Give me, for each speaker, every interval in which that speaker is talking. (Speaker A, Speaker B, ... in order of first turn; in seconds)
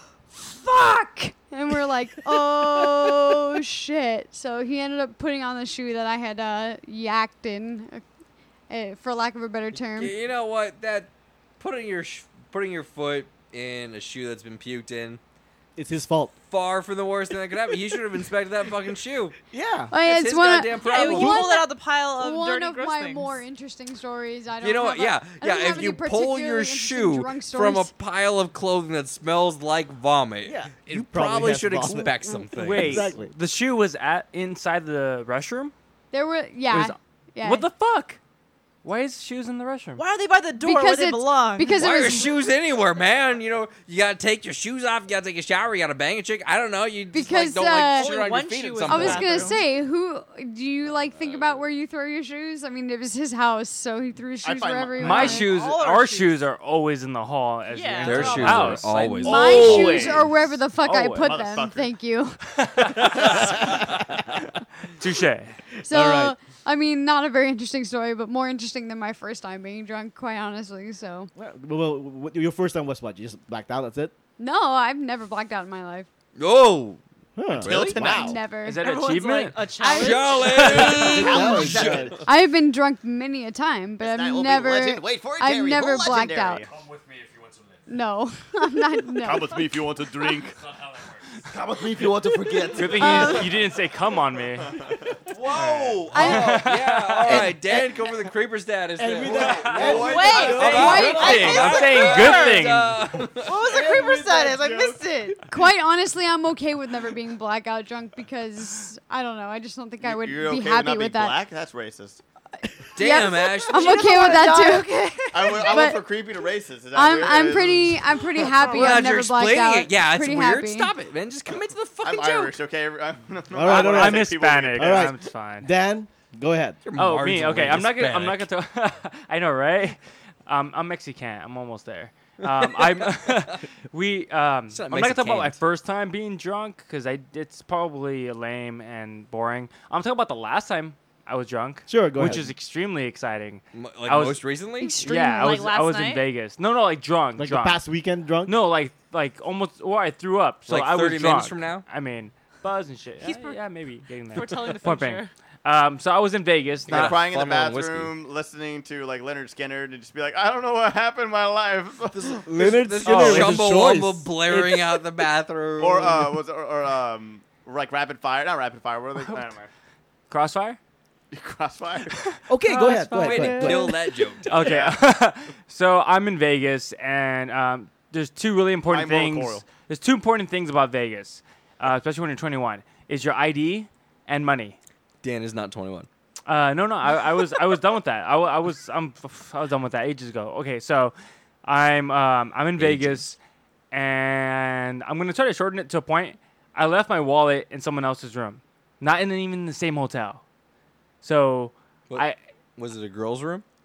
Speaker A: 0.3-8.0, 8.7-10.1, 19.9-27.9, 36.1-37.7, 40.6-42.3, 47.1-48.1, 48.9-55.5, 59.2-62.4, 65.8-71.3, 74.4-76.1, 78.0-78.9, 79.8-80.8, 82.2-86.7, 87.9-89.6, 93.0-93.5, 96.1-96.7, 100.7-101.4, 105.5-111.4, 112.8-114.9, 115.4-116.0, 116.9-120.9, 144.8-145.7
Speaker B: 2.6-3.1, 15.8-16.3, 19.5-19.9, 30.4-33.3, 65.8-66.3, 71.3-74.1, 77.3-78.4, 81.0-82.2, 97.3-97.9, 99.0-101.6, 103.5-105.0, 123.5-126.8, 141.9-142.5, 147.3-148.6, 162.4-164.8, 172.5-174.0
Speaker C: 9.8-15.2, 16.5-19.4, 20.0-21.4, 24.6-33.1, 41.8-49.5, 51.1-51.6, 58.0-60.1, 76.3-78.2, 79.9-82.2, 86.8-87.7, 92.8-93.4, 95.3-103.5, 113.0-114.2, 118.7-122.5, 126.8-128.5, 132.4-133.5, 134.7-135.6, 143.7-144.9, 150.7-151.8, 156.9-158.1, 162.1-166.4, 172.9-174.8, 185.2-186.1, 192.8-193.2, 202.8-203.6
Speaker D: 20.8-23.4, 40.0-42.2, 47.9-49.6, 55.2-56.4, 57.7-58.9, 78.8-81.2, 100.0-102.7, 103.4-105.4, 113.5-115.8, 118.6-119.0, 145.4-146.2, 153.2-153.6, 154.3-155.3
Speaker E: 32.5-35.7, 36.7-38.2, 38.8-40.0, 55.0-60.3, 60.8-61.4, 62.6-63.8, 65.0-65.5, 78.6-79.7, 80.4-81.3, 92.7-94.7, 96.1-97.5, 99.4-103.0, 123.6-125.7, 126.9-144.4, 145.0-147.8, 148.4-157.2, 163.0-163.7, 169.2-169.5, 170.3-170.8, 172.2-173.8, 174.4-184.8, 186.5-193.4, 193.9-200.4, 201.2-202.4
Speaker F: 54.4-55.3, 61.2-61.9, 77.6-78.4, 81.2-82.2, 84.0-86.8, 89.2-90.6, 91.5-93.4, 95.5-96.3, 99.8-100.4, 110.0-112.2, 115.3-118.0, 122.0-125.1, 156.9-162.4, 165.8-169.7, 171.3-172.2, 174.6-175.0, 178.9-179.7